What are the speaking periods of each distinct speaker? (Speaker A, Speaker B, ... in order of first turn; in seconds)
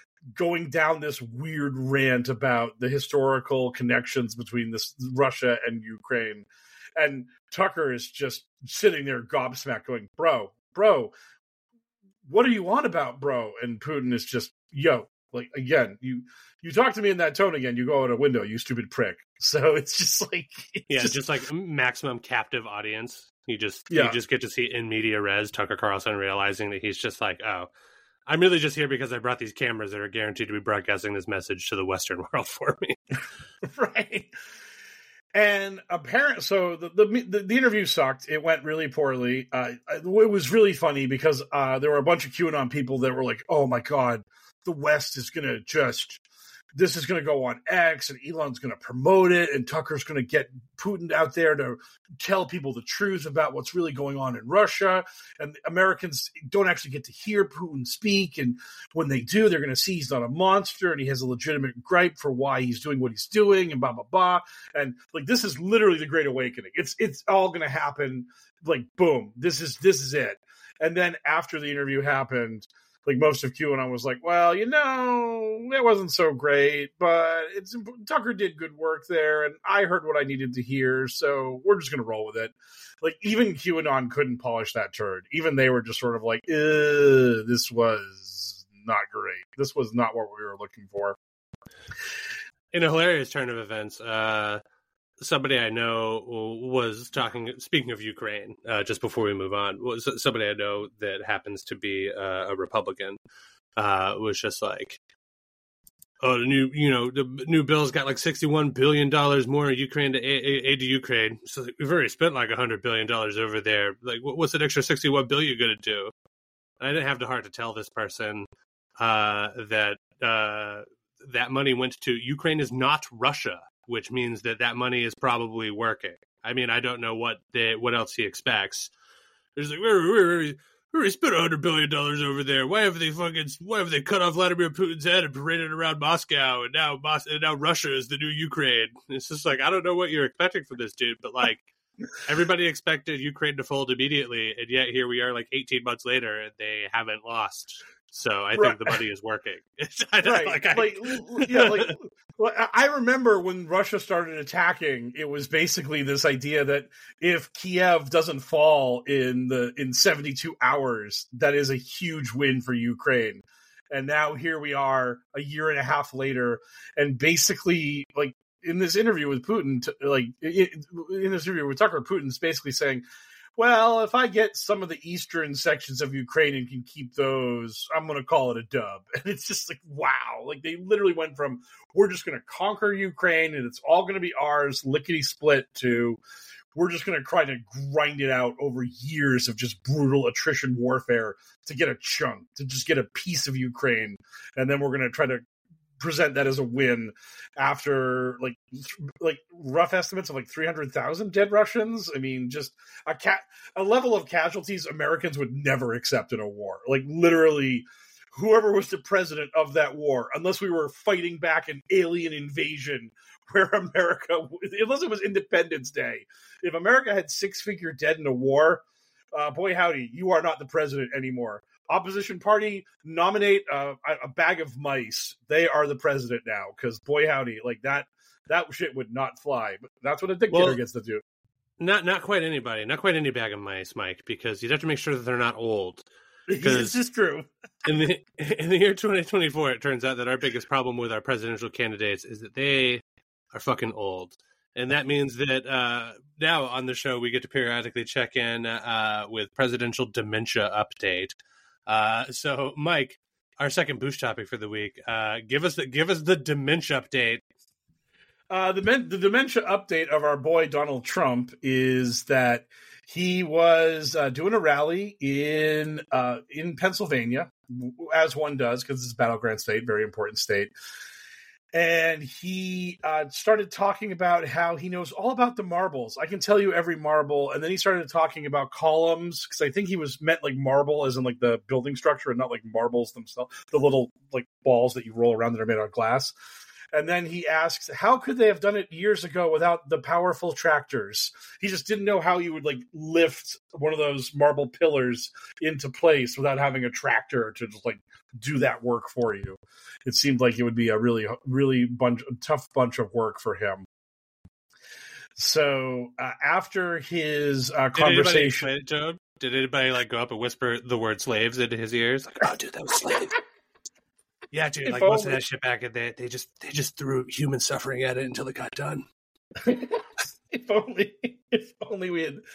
Speaker A: 0.3-11.1, 12.2-21.2, 23.9-24.1, 33.6-34.3, 35.3-46.2, 46.7-91.2, 148.6-148.9, 150.2-173.0, 173.6-186.2, 186.7-195.4, 196.0-231.2, 236.5-237.4, 258.5-270.7, 271.7-286.3, 286.9-303.9, 305.4-308.7, 314.8-315.4, 319.6-322.4
Speaker B: 20.9-27.7, 28.3-33.0, 92.7-94.6, 95.2-103.2, 103.8-105.0, 106.2-116.1, 116.8-118.5, 119.0-128.9, 129.6-141.6, 142.2-151.9, 230.5-230.8, 231.8-236.0, 236.6-237.0, 237.8-243.0, 243.5-251.3, 251.9-257.4, 307.9-313.3, 314.5-319.0